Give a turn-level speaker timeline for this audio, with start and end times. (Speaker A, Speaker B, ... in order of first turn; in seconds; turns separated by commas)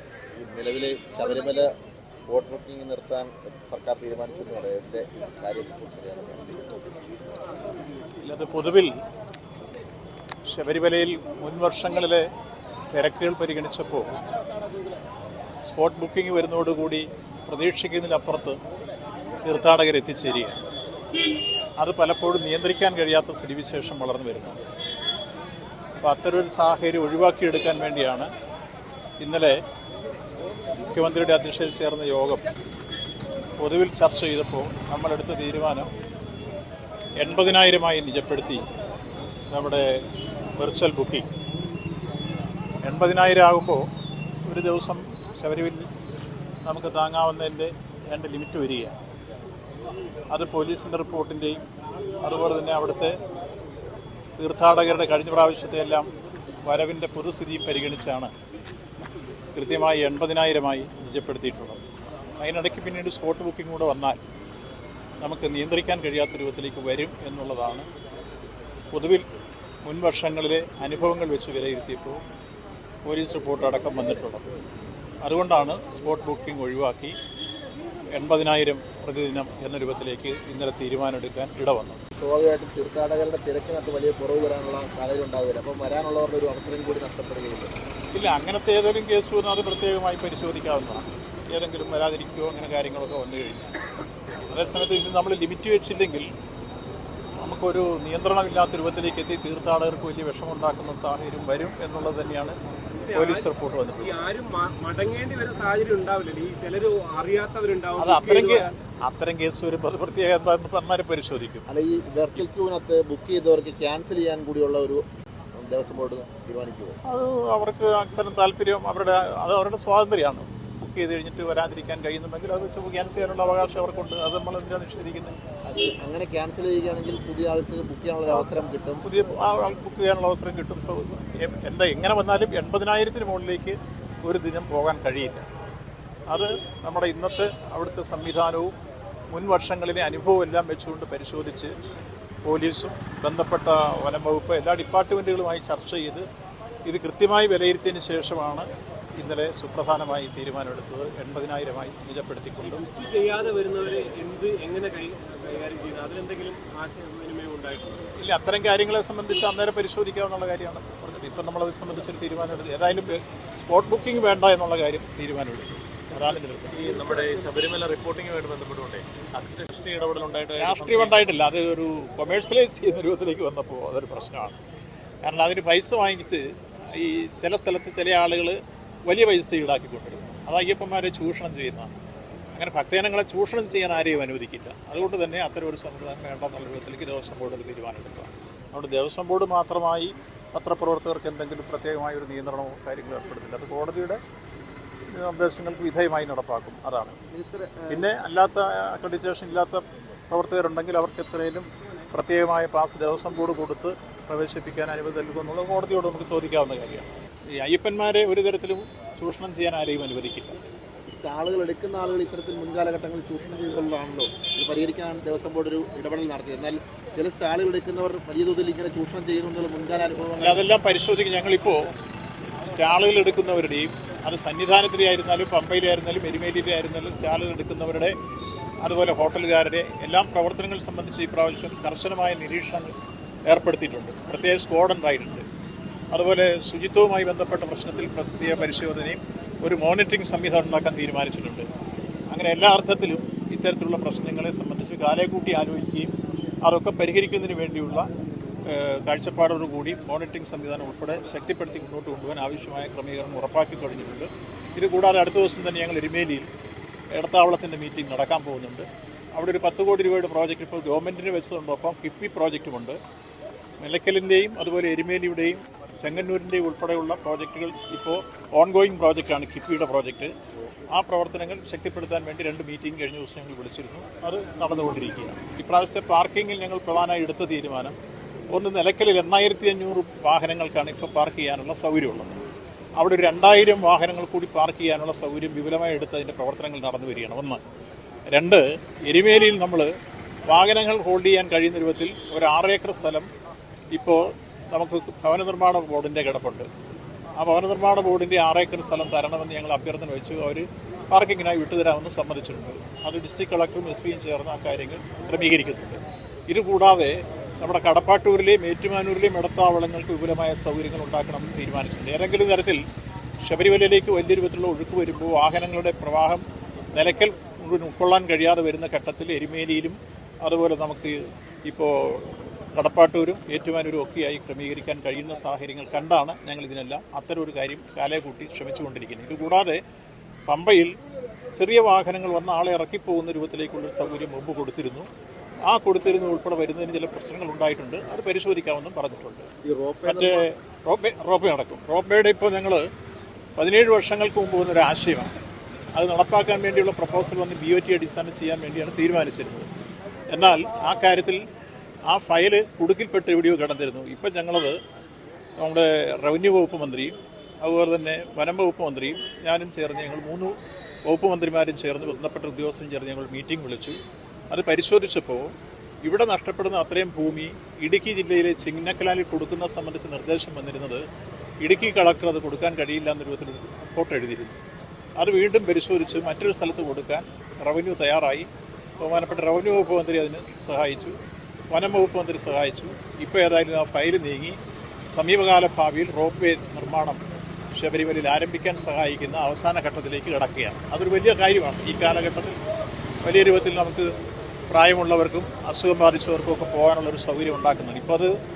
Speaker A: 0.4-6.7, Speaker B: 8.2-9.0, Speaker B: 10.5-12.2, Speaker B: 12.9-14.2, Speaker B: 15.7-18.6, Speaker B: 19.4-20.6, Speaker B: 21.8-24.6, Speaker B: 26.0-28.3, Speaker B: 29.2-29.6, Speaker B: 30.8-32.4, Speaker B: 33.6-35.9, Speaker B: 37.2-38.6, Speaker B: 39.5-40.0, Speaker B: 40.6-41.2, Speaker B: 42.8-43.8, Speaker B: 44.5-45.9, Speaker B: 46.6-49.0, Speaker B: 50.3-51.6, Speaker B: 52.2-53.1, Speaker B: 54.4-56.1, Speaker B: 56.6-58.3, Speaker B: 59.5-61.8, Speaker B: 62.4-64.2, Speaker B: 65.2-67.8, Speaker B: 68.9-69.2, Speaker B: 69.8-72.2, Speaker B: 73.1-74.5, Speaker B: 75.2-77.1, Speaker B: 78.1-82.0, Speaker A: 82.2-87.7, Speaker B: 88.1-93.8, Speaker B: 94.4-96.3, Speaker B: 97.4-102.5, Speaker C: 103.0-108.7, Speaker B: 103.1-104.2, Speaker B: 108.0-111.6, Speaker A: 111.7-115.0, Speaker A: 115.6-117.0, Speaker B: 117.0-125.4, Speaker A: 125.7-129.1, Speaker B: 129.0-135.4, Speaker B: 136.3-138.7, Speaker B: 139.3-141.7, Speaker B: 142.4-146.2, Speaker B: 146.8-152.8, Speaker C: 152.8-158.1, Speaker B: 158.2-166.8, Speaker D: 166.7-171.2, Speaker C: 166.9-167.6, Speaker B: 170.6-174.6, Speaker B: 175.2-178.6, Speaker B: 179.1-181.9, Speaker B: 182.5-194.2, Speaker B: 195.1-197.2, Speaker A: 197.3-198.1, Speaker B: 197.9-210.6, Speaker A: 211.1-220.7, Speaker B: 220.4-221.9, Speaker B: 222.6-228.1, Speaker B: 228.8-232.9, Speaker B: 233.5-235.4, Speaker B: 236.1-241.7, Speaker B: 242.3-246.1, Speaker B: 246.6-248.1, Speaker B: 248.7-256.4, Speaker B: 257.1-263.0, Speaker B: 263.8-270.3, Speaker B: 270.9-277.9, Speaker B: 278.5-282.4, Speaker B: 283.0-287.6, Speaker B: 288.3-289.9, Speaker B: 290.5-293.3, Speaker B: 293.9-296.7, Speaker B: 297.4-312.8, Speaker B: 313.4-329.8, Speaker B: 330.5-330.9, Speaker B: 331.6-335.1, Speaker B: 335.7-339.5, Speaker A: 339.6-340.4, Speaker B: 340.0-342.8, Speaker B: 343.6-345.3, Speaker B: 345.9-349.7, Speaker B: 350.3-351.4, Speaker B: 352.1-354.8, Speaker B: 355.6-360.5, Speaker B: 361.1-364.0, Speaker B: 364.5-365.5, Speaker B: 366.0-371.0, Speaker B: 371.6-374.6, Speaker B: 375.2-378.5, Speaker B: 379.0-381.1, Speaker B: 381.7-384.6, Speaker B: 385.1-387.2, Speaker B: 387.7-392.6, Speaker B: 393.2-394.1, Speaker B: 394.7-398.3